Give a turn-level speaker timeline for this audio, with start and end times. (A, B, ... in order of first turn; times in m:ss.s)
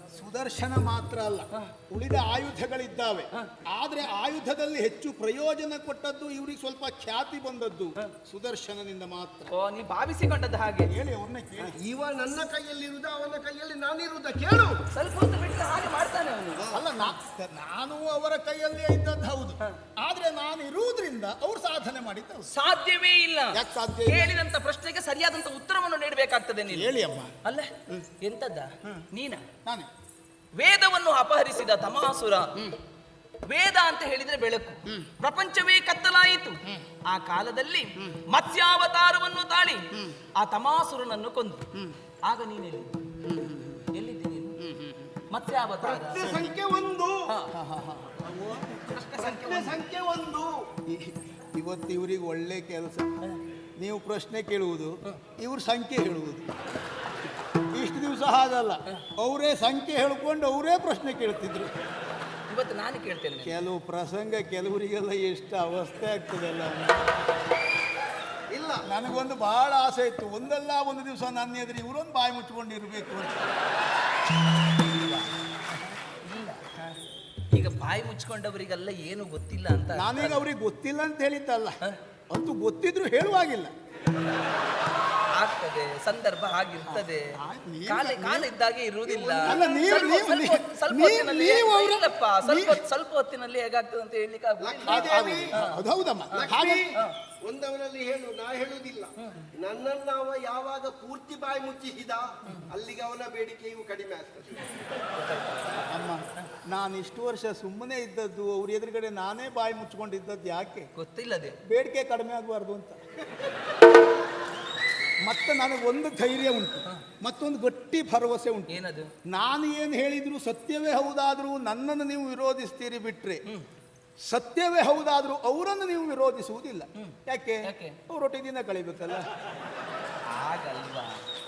0:00.1-0:09.5 A
0:09.5-0:10.9 B
0:10.9-0:11.8 A
0:11.7-0:14.8 C
0:14.9-0:16.7 B
0:16.6-0:16.9 C
0:16.7-0:22.5 A
0:22.5-0:26.9 B
0:23.5-0:24.3 A
0:26.7-0:27.3 A
0:27.4-0:29.5 B
0:29.6-0:29.9 A
0:30.6-0:32.7 B
0:33.5-0:41.7 B
0:42.2-0:43.0 B
0:43.9-0:44.6 B
0:45.3-0:46.4 B
0:45.8-0:47.3 C
0:46.2-0:46.5 A
0:47.5-0:48.2 A
0:48.2-0:50.7 C
0:48.9-0:49.8 B
0:50.9-0:53.2 A
0:53.8-0:56.5 A
0:57.7-1:01.7 A
1:02.5-1:03.6 B
1:03.4-1:07.0 A
1:08.5-1:08.9 C
1:08.8-1:13.5 A
1:14.8-1:15.4 B
1:16.2-1:17.0 B
1:17.5-1:20.5 B
1:20.0-1:21.8 A
1:22.3-1:23.7 A
1:25.3-1:27.3 B
1:26.9-1:28.5 A
1:27.9-1:35.8 B
1:29.1-1:32.8 A
1:34.6-1:35.6 C
1:34.9-1:36.9 A
1:36.3-1:37.2 B
1:36.3-1:44.7 C
1:45.2-1:45.9 B
1:45.9-1:50.9 A
1:51.0-1:51.6 B
1:51.6-1:53.0 A
1:55.2-2:03.4 A
1:58.7-1:59.1 B
2:04.2-2:09.3 A
2:07.0-2:08.0 B
2:10.3-2:11.2 B